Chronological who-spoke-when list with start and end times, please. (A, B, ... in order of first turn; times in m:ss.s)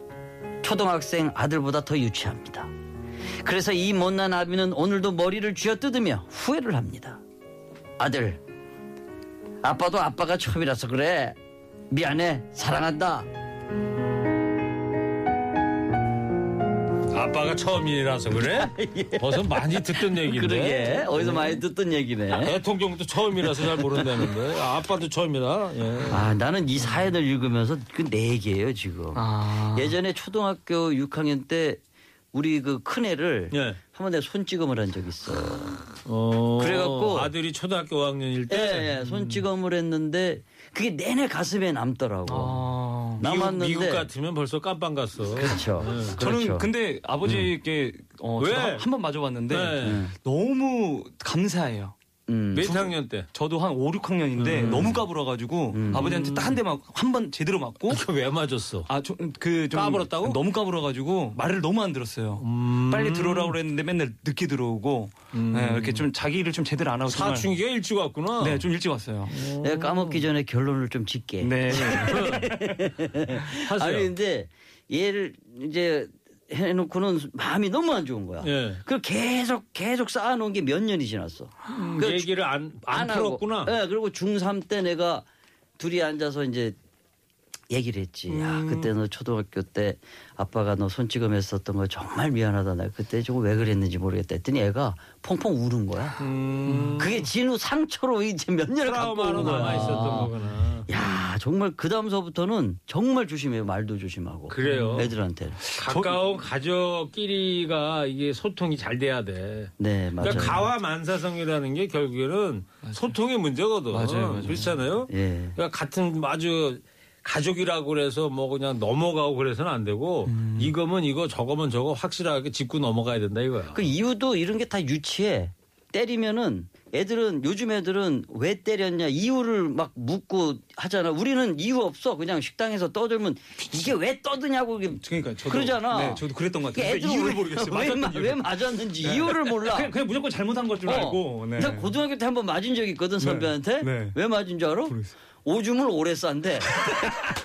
0:00.6-0:02.7 A
0:03.4-0:07.2 A
0:08.0-0:08.4 A
0:09.6-0:11.4 A
0:11.9-0:13.3 A
0:17.1-0:21.6 B
0:18.4-0:22.5 A
0:22.3-0:26.3 B
0:23.7-0:24.0 A
0:26.1-0:31.8 A
0:29.1-0:30.0 C
0:32.3-0:35.8 A
0:33.5-0:33.8 B
0:36.0-0:39.4 B
0:36.6-0:37.3 A
0:38.5-0:42.6 A
0:42.2-0:43.2 C
0:43.2-0:44.1 A
0:43.2-0:46.1 B
0:45.4-0:46.7 A
0:46.1-0:52.0 C
0:48.4-0:48.8 B
0:49.5-0:50.0 B
0:49.8-0:50.1 A
0:52.3-0:52.7 A
0:52.5-0:53.3 B
0:52.6-0:58.0 C
0:54.4-0:55.0 B
0:54.6-0:55.0 A
0:55.7-0:56.1 A
0:55.9-0:56.6 B
0:57.9-0:58.9 B
0:58.9-1:07.5 C
0:59.7-1:00.4 B
1:02.4-1:03.6 B
1:05.3-1:06.0 B
1:07.1-1:08.6 B
1:08.4-1:09.4 C
1:09.3-1:10.2 B
1:09.6-1:22.3 A
1:11.4-1:12.7 C
1:11.8-1:12.5 B
1:13.5-1:14.1 B
1:18.4-1:18.8 B
1:21.7-1:23.7 B
1:22.9-1:25.2 A
1:25.8-1:26.7 A
1:27.7-1:36.2 A
1:28.3-1:28.9 B
1:36.2-1:37.3 B
1:36.7-1:37.0 C
1:37.0-1:40.3 A
1:38.8-1:40.9 B
1:40.9-1:45.6 A
1:44.5-1:45.1 B
1:44.6-1:45.1 C
1:45.7-1:46.2 C
1:45.7-2:03.8 B
1:49.8-1:50.6 A
1:50.2-1:50.6 C
1:53.9-1:54.7 C
1:55.1-1:55.6 A
2:00.3-2:00.7 C
2:03.7-2:19.9 A
2:15.0-2:21.9 C
2:20.9-2:26.9 A
2:23.2-2:24.2 C
2:24.9-2:25.1 C